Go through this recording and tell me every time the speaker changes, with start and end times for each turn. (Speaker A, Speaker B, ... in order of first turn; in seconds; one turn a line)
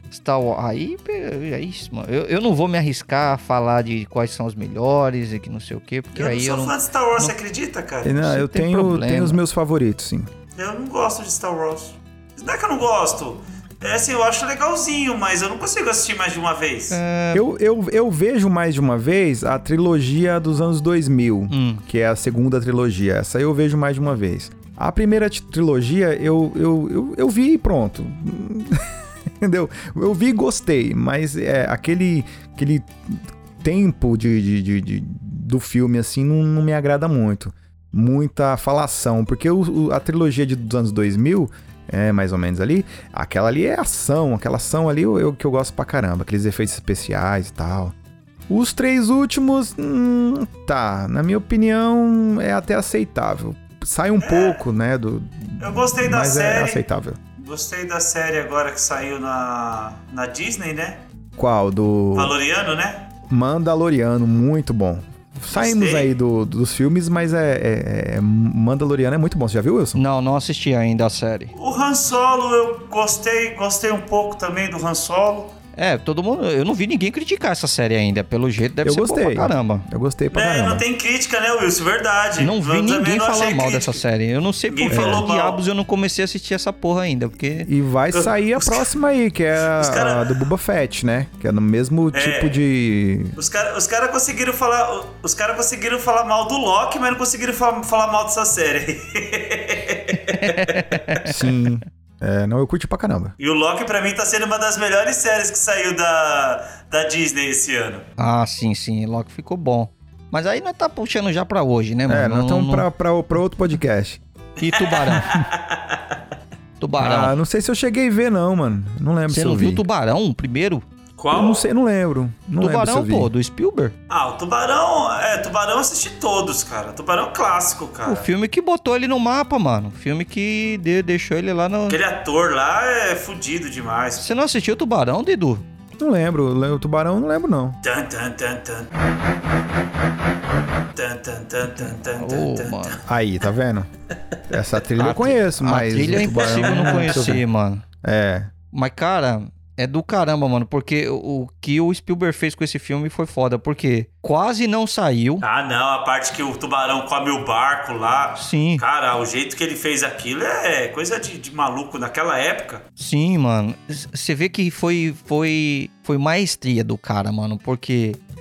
Speaker A: 0.1-7.3
Speaker B: 6.1-8.1
Speaker C: 8.0-10.3
Speaker A: 8.2-9.4
Speaker B: 10.6-17.0
Speaker A: 16.9-17.4
Speaker C: 17.3-28.9
Speaker A: 21.5-21.8
Speaker C: 29.4-47.9
Speaker C: 48.5-57.2
Speaker B: 54.2-54.6
Speaker B: 55.6-56.8
Speaker B: 57.4-61.0
Speaker C: 61.4-62.3
Speaker B: 62.1-63.1
Speaker C: 63.3-70.0
Speaker B: 65.5-66.1
Speaker A: 69.9-71.5
Speaker B: 71.5-75.5
Speaker A: 75.8-79.9
Speaker C: 78.8-80.8
Speaker B: 80.3-84.0
Speaker A: 82.4-87.7
Speaker B: 84.7-85.6
Speaker C: 84.9-85.2
Speaker C: 87.6-93.3
Speaker B: 88.1-88.9
Speaker B: 89.7-90.5
Speaker B: 92.1-92.6
Speaker B: 93.3-101.2
Speaker A: 100.4-101.3
Speaker C: 101.3-103.3
Speaker B: 103.4-108.0
Speaker A: 108.2-112.9
Speaker C: 112.1-114.2
Speaker B: 114.6-116.1
Speaker A: 114.6-115.4
Speaker A: 116.8-117.3
Speaker C: 117.0-119.8
Speaker A: 119.3-120.8
Speaker B: 121.2-121.6
Speaker C: 121.3-123.3
Speaker A: 122.6-123.9
Speaker B: 124.1-128.3
Speaker A: 128.0-132.0
Speaker B: 131.9-134.2
Speaker A: 134.2-135.6
Speaker C: 136.0-137.8
Speaker B: 137.8-138.9
Speaker B: 140.9-143.0
Speaker A: 141.8-143.0
Speaker C: 143.1-143.9
Speaker C: 144.5-147.4
Speaker A: 145.0-147.8
Speaker B: 146.2-147.2
Speaker C: 148.0-148.5
Speaker A: 148.7-155.4
Speaker B: 155.4-162.8
Speaker A: 158.3-158.8
Speaker A: 163.0-168.2